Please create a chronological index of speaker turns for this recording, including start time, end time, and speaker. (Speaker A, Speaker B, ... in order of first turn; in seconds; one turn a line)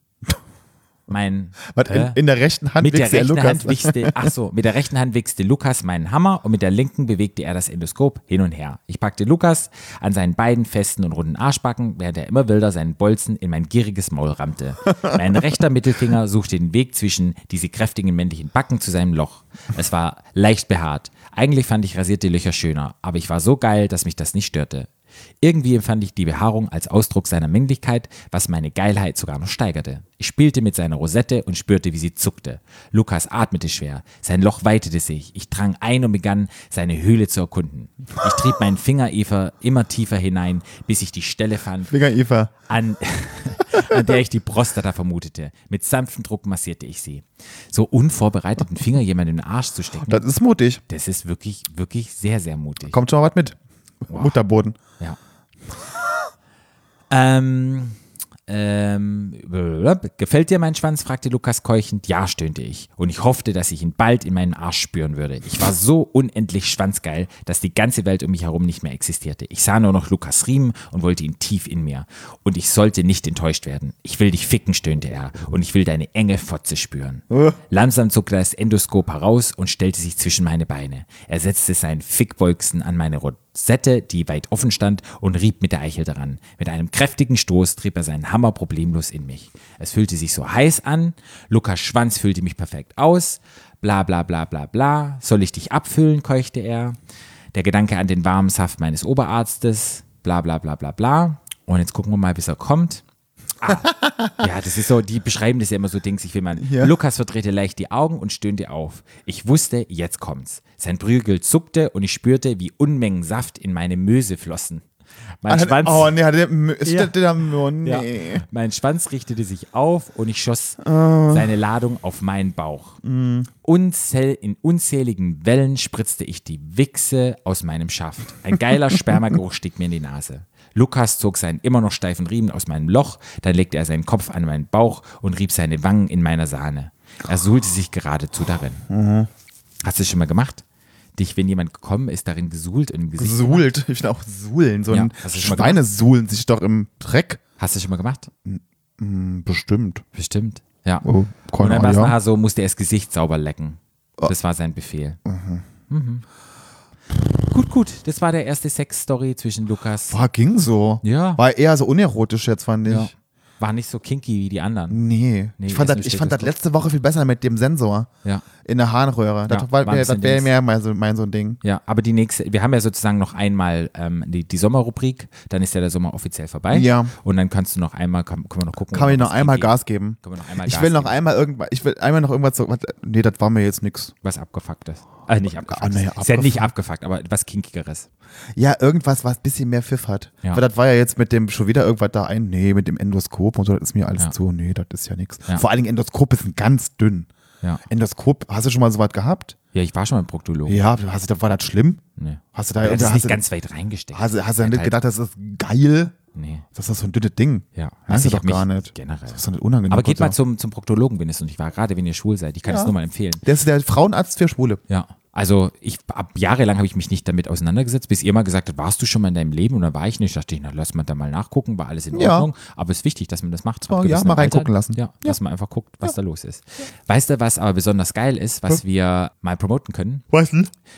Speaker A: 1.1-2.2
Speaker B: 1.7-4.3
Speaker A: 2.8-24.9
Speaker A: 25.4-41.9
Speaker B: 41.9-42.5
Speaker A: 42.7-50.2
Speaker B: 50.0-50.8
Speaker A: 50.9-53.0
Speaker B: 52.9-54.8
Speaker A: 54.1-54.4
Speaker A: 57.1-97.0
Speaker A: 97.5-103.0
Speaker A: 103.6-114.8
Speaker B: 103.7-104.4
Speaker B: 106.6-106.9
Speaker A: 115.4-116.2
Speaker B: 115.5-118.4
Speaker A: 116.8-117.2
Speaker A: 117.8-123.0
Speaker B: 120.8-121.5
Speaker B: 123.0-123.5
Speaker A: 123.6-138.8
Speaker B: 138.9-139.3
Speaker A: 139.8-140.6
Speaker A: 141.2-143.7
Speaker B: 143.2-147.4
Speaker A: 144.9-145.8
Speaker A: 147.6-148.3
Speaker B: 148.4-150.0
Speaker A: 150.1-151.1
Speaker B: 151.0-152.2
Speaker A: 151.6-155.2
Speaker B: 155.2-155.7
Speaker A: 155.9-156.2
Speaker A: 157.4-160.2
Speaker B: 160.1-163.1
Speaker A: 161.0-161.4
Speaker A: 162.9-165.0
Speaker B: 164.9-168.1
Speaker A: 165.6-166.5
Speaker B: 168.7-171.6
Speaker A: 169.5-170.5
Speaker A: 171.6-181.2
Speaker B: 176.7-177.1
Speaker B: 178.9-184.1
Speaker A: 184.2-188.1
Speaker B: 185.4-186.7
Speaker B: 188.6-197.3
Speaker B: 197.9-199.6
Speaker A: 199.7-200.8
Speaker B: 200.7-202.0
Speaker A: 202.2-204.9
Speaker B: 202.6-203.4
Speaker B: 204.1-206.2
Speaker A: 206.3-206.7
Speaker B: 206.8-210.4
Speaker A: 207.8-213.4
Speaker B: 212.7-214.8
Speaker A: 214.9-230.3
Speaker B: 222.1-222.5
Speaker B: 223.9-225.4
Speaker B: 230.3-230.7